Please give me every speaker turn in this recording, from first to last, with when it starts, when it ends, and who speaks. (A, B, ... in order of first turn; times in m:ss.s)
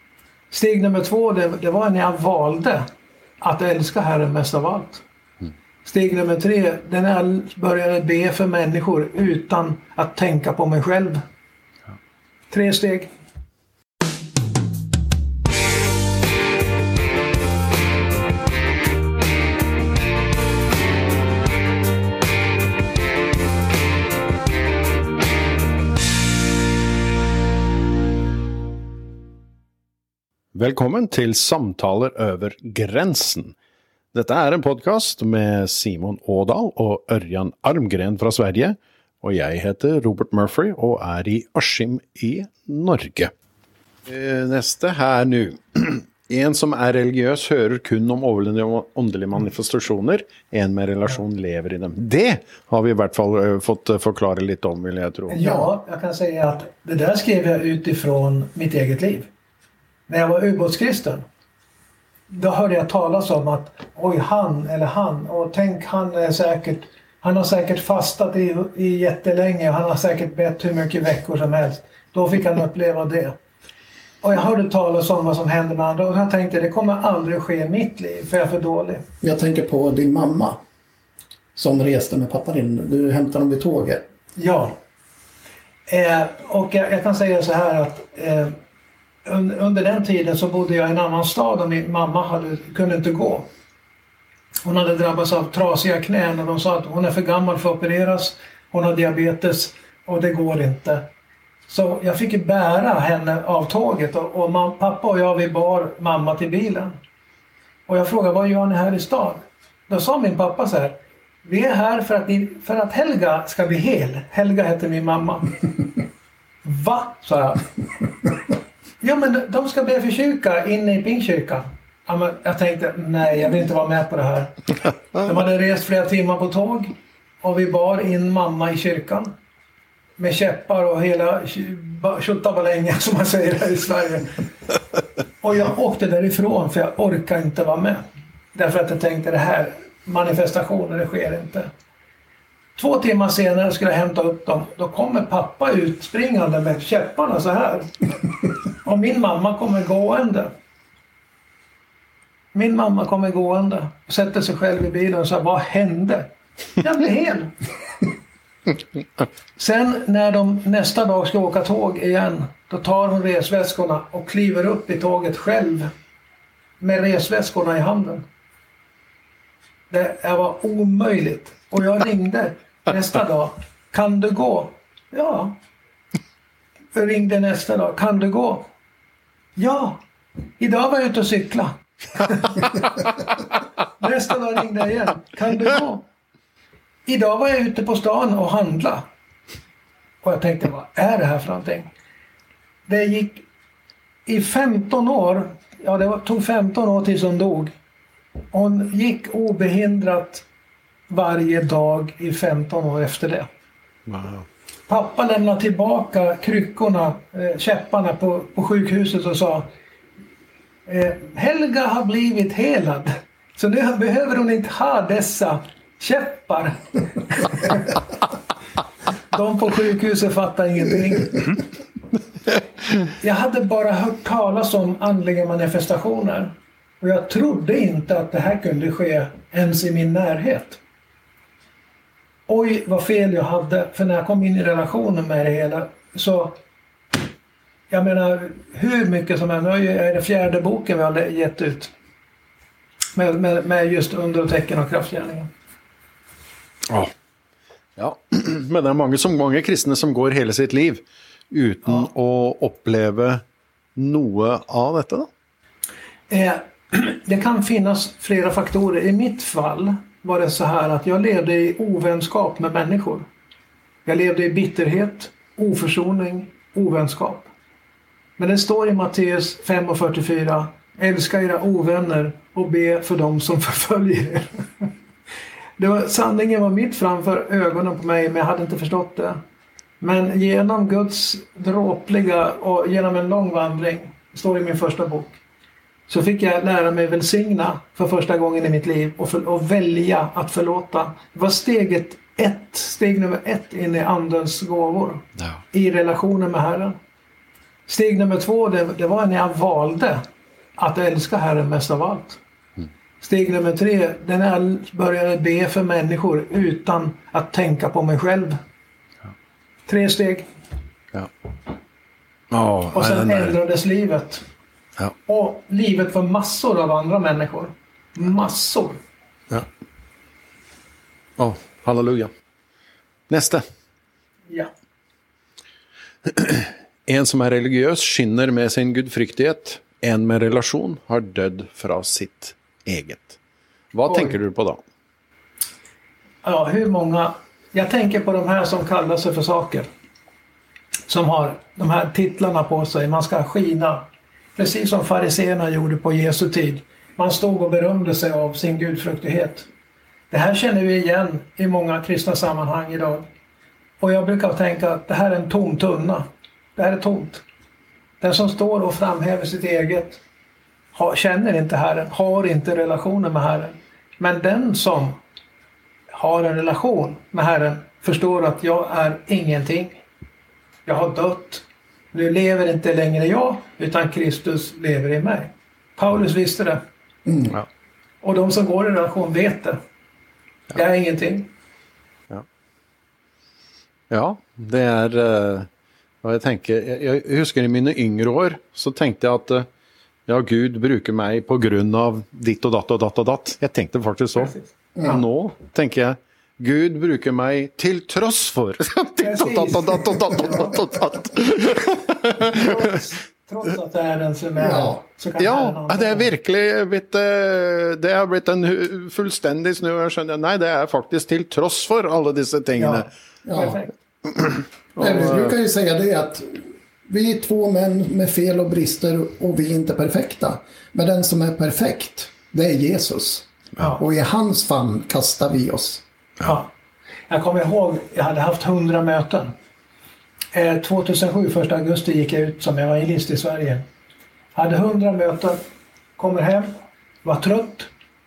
0:00.5-0:02.8 A
0:03.4-0:05.0 A
0:05.8-0:11.2 A
0:12.5-0:13.1 A
0:30.5-0:33.6 B
0:34.1-0:43.3 B
0:44.1-0:55.4 B
0:55.3-0:59.3 A
0:55.4-0:55.7 C
1:00.1-1:01.2 A
1:02.3-1:13.4 A
1:14.2-1:19.0 A
1:19.2-1:20.6 C
1:21.6-1:24.1 C
1:24.4-1:24.8 A
1:25.9-1:28.6 A
1:29.2-1:33.5 A
1:34.6-1:41.1 A
1:41.7-1:47.0 A
1:47.9-1:55.5 A
1:56.6-1:57.7 A
1:59.0-2:09.3 A
2:10.2-2:14.3 A
2:15.4-2:21.7 A
2:22.8-2:28.1 A
2:28.7-2:30.5 A
2:32.5-2:37.5 A
2:39.6-2:45.9 A
2:46.8-2:48.2 A
2:49.9-2:55.6 A
2:56.9-2:58.7 A
2:59.6-3:00.0 A
3:00.6-3:03.2 A
3:04.0-3:06.1 A
3:07.1-3:09.1 A
3:10.2-3:11.9 A
3:12.9-3:13.5 A
3:14.3-3:17.8 A
3:18.5-3:20.5 A
3:21.1-3:23.5 A
3:24.1-3:24.5 B
3:24.9-3:29.7 A
3:30.9-3:37.9 A
3:39.3-3:41.6 A
3:43.2-3:50.8 A
3:52.5-3:56.6 A
3:57.9-4:01.9 A
4:03.2-4:05.5 A
4:08.0-4:13.4 B
4:14.0-4:15.3 B
4:16.3-4:23.3 A
4:24.1-4:27.5 A
4:28.4-4:34.9 A
4:35.8-4:39.4 A
4:40.0-4:45.4 A
4:46.1-4:57.0 A
4:57.9-5:00.2 A
5:00.8-5:02.4 A
5:03.2-5:08.6 A
5:09.9-5:10.5 A
5:12.5-5:13.5 B
5:12.9-5:14.4 A
5:15.3-5:19.0 A
5:21.4-5:22.3 B
5:23.3-5:23.6 B
5:26.3-5:33.4 B
5:33.9-5:34.8 B
5:34.1-5:34.4 A
5:36.4-5:39.9 A
5:41.1-5:49.7 A
5:50.3-5:53.3 A
5:54.0-5:57.4 A
5:58.2-6:00.2 A
6:00.9-6:05.2 A
6:06.1-6:10.0 A
6:10.9-6:16.8 A
6:17.3-6:17.5 C
6:18.2-6:19.8 A
6:20.7-6:21.5 A
6:24.1-6:25.7 B
6:26.2-6:29.7 B
6:30.3-6:42.7 B
6:34.4-6:34.7 A
6:35.0-6:35.2 C
6:39.2-6:40.8 A
6:42.3-6:46.3 A
6:44.6-6:45.0 C
6:45.4-6:53.0 B
6:52.8-6:53.9 A
6:53.4-6:53.8 C
6:54.4-6:55.5 B
6:55.0-7:06.0 C
7:03.8-7:04.0 A
7:06.4-7:06.7 A
7:07.3-7:09.5 A
7:10.5-7:13.8 A
7:14.6-7:15.6 A
7:16.2-7:16.7 A
7:17.2-7:17.9 A